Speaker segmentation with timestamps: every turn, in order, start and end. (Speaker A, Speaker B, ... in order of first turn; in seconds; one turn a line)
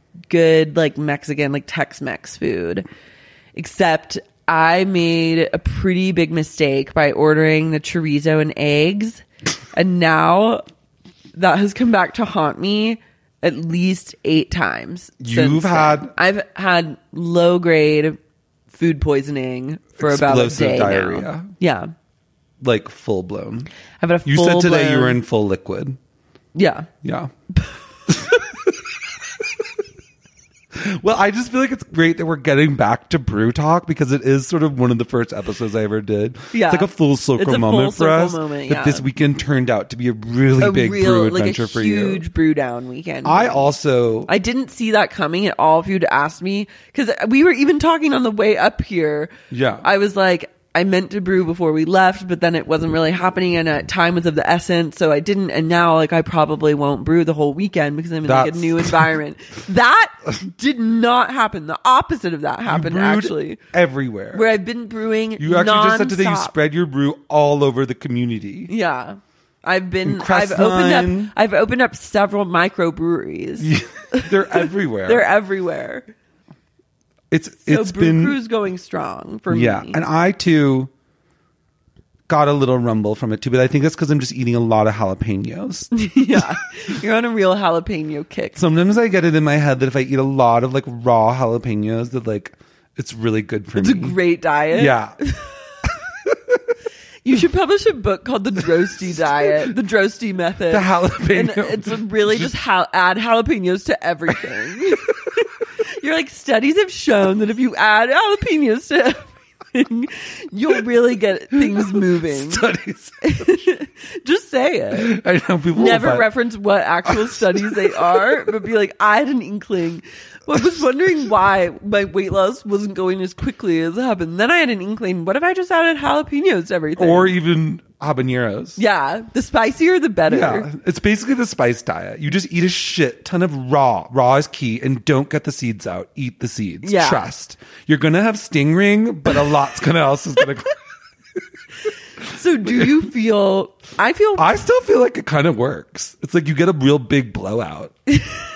Speaker A: 0.3-2.9
Speaker A: 3.5-10.6
Speaker A: 11.3-18.2
Speaker B: 15.2-16.1
Speaker A: 18.7-21.9
Speaker B: 20.0-21.5
Speaker B: 22.6-23.7
Speaker A: 24.0-25.2
Speaker B: 24.2-26.0
Speaker A: 26.5-26.9
Speaker B: 27.0-27.3
Speaker B: 28.1-28.7
Speaker B: 30.7-42.2
Speaker A: 36.5-39.0
Speaker A: 40.6-43.7
Speaker B: 43.2-44.3
Speaker A: 44.3-63.6
Speaker B: 49.5-49.9
Speaker B: 58.2-59.1
Speaker B: 62.7-64.5
Speaker A: 64.3-66.5
Speaker B: 65.4-68.7
Speaker A: 68.7-76.1
Speaker B: 70.0-71.3
Speaker B: 73.6-75.3
Speaker B: 77.3-78.4
Speaker A: 77.7-80.0
Speaker B: 79.5-80.9
Speaker B: 82.3-86.4
Speaker A: 85.9-88.6
Speaker B: 88.5-94.2
Speaker A: 93.8-95.5
Speaker B: 94.7-95.2
Speaker B: 96.2-96.6
Speaker A: 97.2-112.6
Speaker B: 100.7-102.5
Speaker B: 111.7-113.4
Speaker A: 113.2-115.1
Speaker B: 114.9-116.3
Speaker A: 115.7-127.3
Speaker B: 117.1-118.2
Speaker B: 127.0-128.8
Speaker A: 128.8-130.7
Speaker B: 130.3-140.8
Speaker A: 136.8-137.2
Speaker A: 142.3-144.6
Speaker B: 142.7-142.9
Speaker B: 144.4-148.0
Speaker A: 148.1-148.4